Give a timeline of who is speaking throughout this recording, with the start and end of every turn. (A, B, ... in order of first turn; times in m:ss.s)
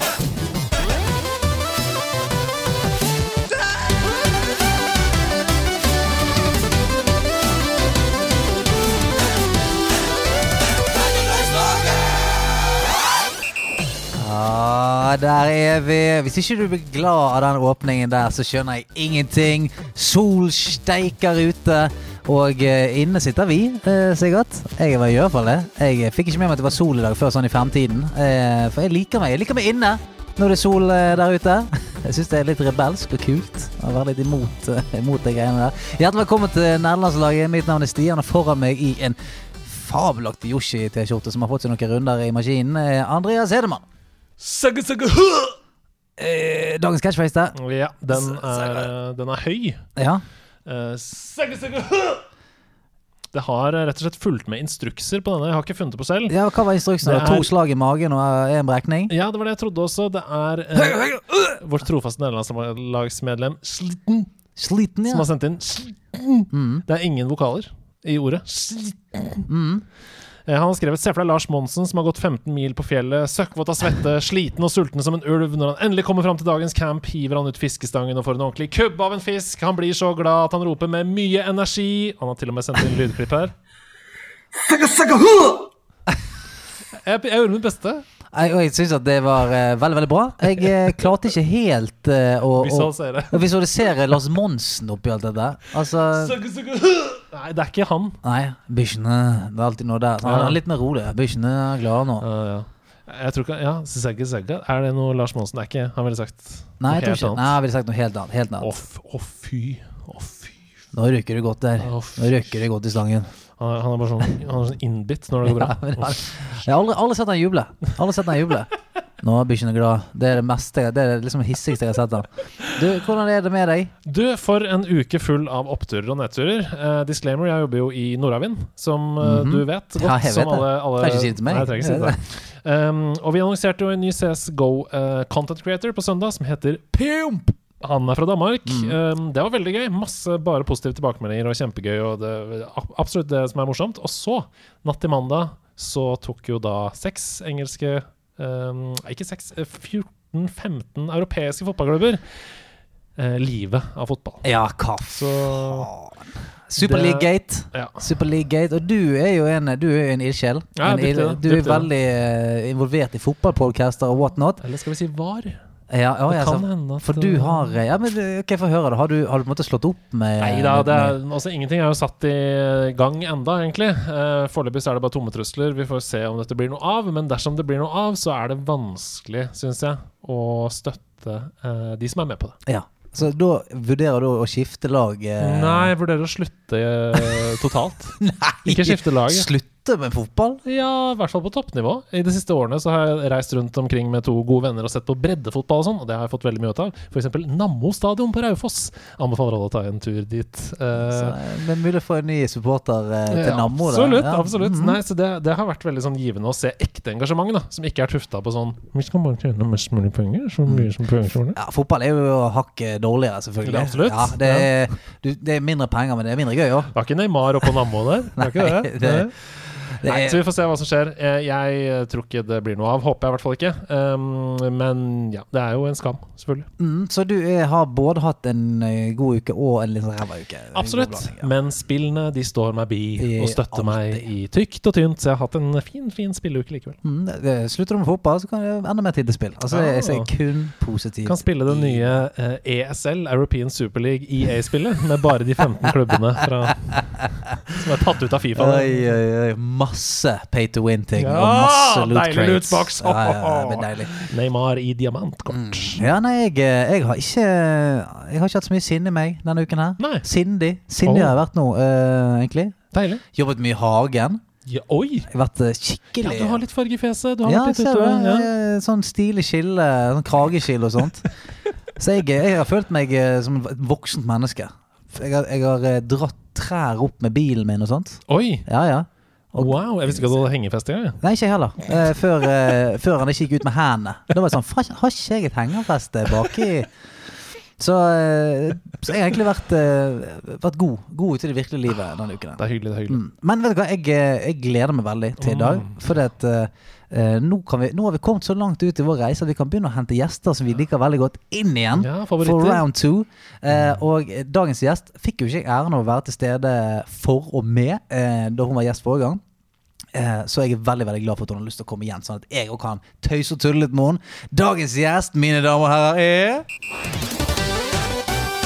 0:14.1-0:43.8 A
0:44.4-0:45.5 B
0:46.2-0:47.6 A
0:47.5-0:49.9 B
0:48.1-0:48.9 A
0:50.0-0:50.2 A
0:50.6-0:52.2 B
0:53.3-0:56.4 B
0:56.3-0:59.1 A
0:57.0-0:57.5 B
0:59.1-1:04.3 B
1:00.8-1:01.6 A
1:04.6-1:05.3 A
1:05.1-1:09.4 B
1:06.5-1:06.8 A
1:09.4-1:09.8 A
1:10.5-1:23.5 B
1:27.0-1:28.0 B
1:28.3-1:36.4 A
1:32.5-1:33.4 B
1:36.1-1:38.2 B
1:38.2-1:42.2 A
1:40.2-1:40.6 B
1:42.2-1:47.6 B
1:46.8-1:48.7 A
1:48.6-1:50.6 B
1:50.9-1:53.3 A
1:51.8-1:52.6 B
1:53.6-1:56.2 B
1:55.4-2:03.9 A
2:04.0-2:32.2 B
2:09.2-2:12.2 A
2:18.6-2:19.0 A
2:33.2-2:34.4 B
2:34.4-2:44.6 A
2:35.1-2:35.9 B
2:36.8-2:38.0 B
2:40.8-2:41.9 B
2:44.6-2:45.6 B
2:45.9-2:51.2 A
2:46.3-2:47.8 B
2:50.4-3:02.6 B
3:02.6-3:05.9 A
3:05.4-3:09.5 B
3:07.2-3:07.4 A
3:08.2-3:10.6 A
3:10.6-3:21.4 B
3:20.9-3:25.0 A
3:23.3-3:31.6 B
3:31.5-3:36.9 A
3:33.6-3:34.7 B
3:36.9-3:39.3 B
3:38.4-3:40.4 A
3:40.0-3:46.7 B
3:46.8-3:51.5 A
3:50.7-3:57.0 B
3:53.2-3:54.3 A
3:57.0-4:02.2 A
3:59.7-4:00.3 B
4:01.2-4:07.0 B
4:07.6-4:09.2 B
4:08.6-4:14.2 A
4:11.2-4:16.1 B
4:15.5-4:22.8 A
4:20.0-4:20.2 B
4:21.0-4:21.4 B
4:22.9-4:23.2 B
4:23.3-4:24.4 A
4:24.6-4:25.3 B
4:25.3-4:26.6 A
4:26.2-4:28.5 B
4:27.4-4:31.3 A
4:32.0-4:40.4 A
4:38.3-4:38.7 B
4:39.5-4:41.2 B
4:41.2-4:46.9 A
4:47.8-5:09.4 A
4:52.6-4:53.2 B
4:55.4-4:56.0 B
5:01.9-5:02.8 B
5:03.7-5:04.0 B
5:10.1-5:16.6 A